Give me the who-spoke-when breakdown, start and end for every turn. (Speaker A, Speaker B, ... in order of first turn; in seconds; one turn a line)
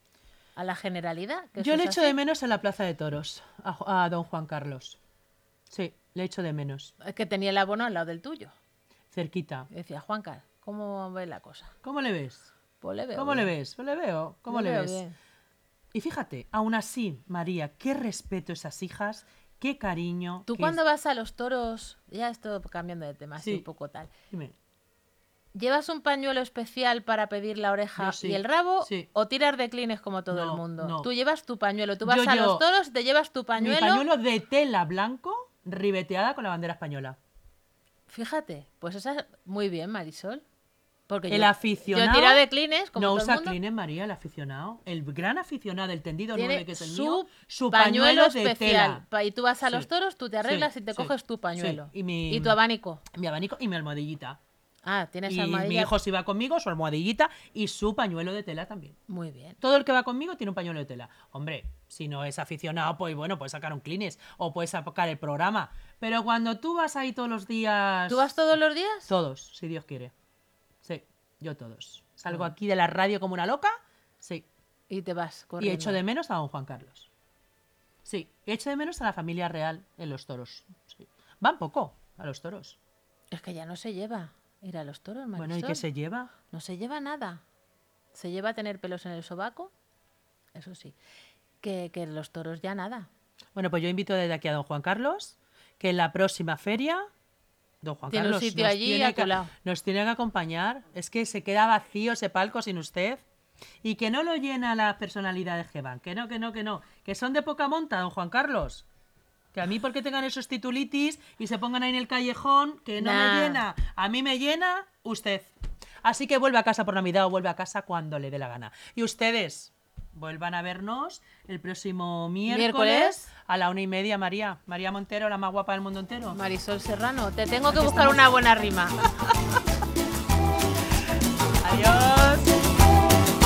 Speaker A: 0.6-2.2
Speaker B: 1.6-5.0
Speaker B: 5.7-6.9
Speaker A: 7.0-8.5
Speaker B: 9.1-9.7
Speaker A: 9.7-11.7
Speaker B: 11.8-12.5
Speaker A: 12.8-13.5
Speaker B: 13.1-15.0
Speaker A: 14.5-15.2
Speaker B: 15.9-20.8
Speaker A: 20.5-24.1
Speaker B: 23.4-23.6
Speaker B: 24.3-24.6
Speaker A: 25.5-34.1
Speaker B: 28.0-29.1
Speaker B: 30.3-31.1
Speaker B: 32.0-32.6
Speaker B: 33.6-37.2
Speaker A: 38.1-40.4
Speaker A: 41.1-43.6
Speaker B: 41.3-49.0
Speaker A: 46.3-53.0
Speaker B: 50.4-54.4
Speaker A: 54.8-55.9
Speaker B: 55.3-59.0
Speaker A: 59.1-59.6
Speaker B: 59.6-68.3
Speaker A: 68.1-69.1
Speaker B: 69.1-70.1
Speaker B: 70.8-74.5
Speaker A: 74.9-76.0
Speaker B: 75.6-77.1
Speaker B: 78.0-82.8
Speaker A: 83.3-85.8
Speaker B: 85.3-86.3
Speaker A: 86.5-87.4
Speaker A: 88.1-89.7
Speaker A: 90.5-91.0
Speaker A: 91.6-93.1
Speaker B: 93.5-97.0
Speaker B: 97.8-103.2
Speaker A: 98.1-99.5
Speaker B: 103.8-108.8
Speaker B: 109.5-115.5
Speaker A: 113.0-113.6
Speaker B: 116.0-126.4
Speaker A: 122.5-123.2
Speaker A: 126.3-129.0
Speaker B: 127.7-128.3
Speaker B: 131.6-132.6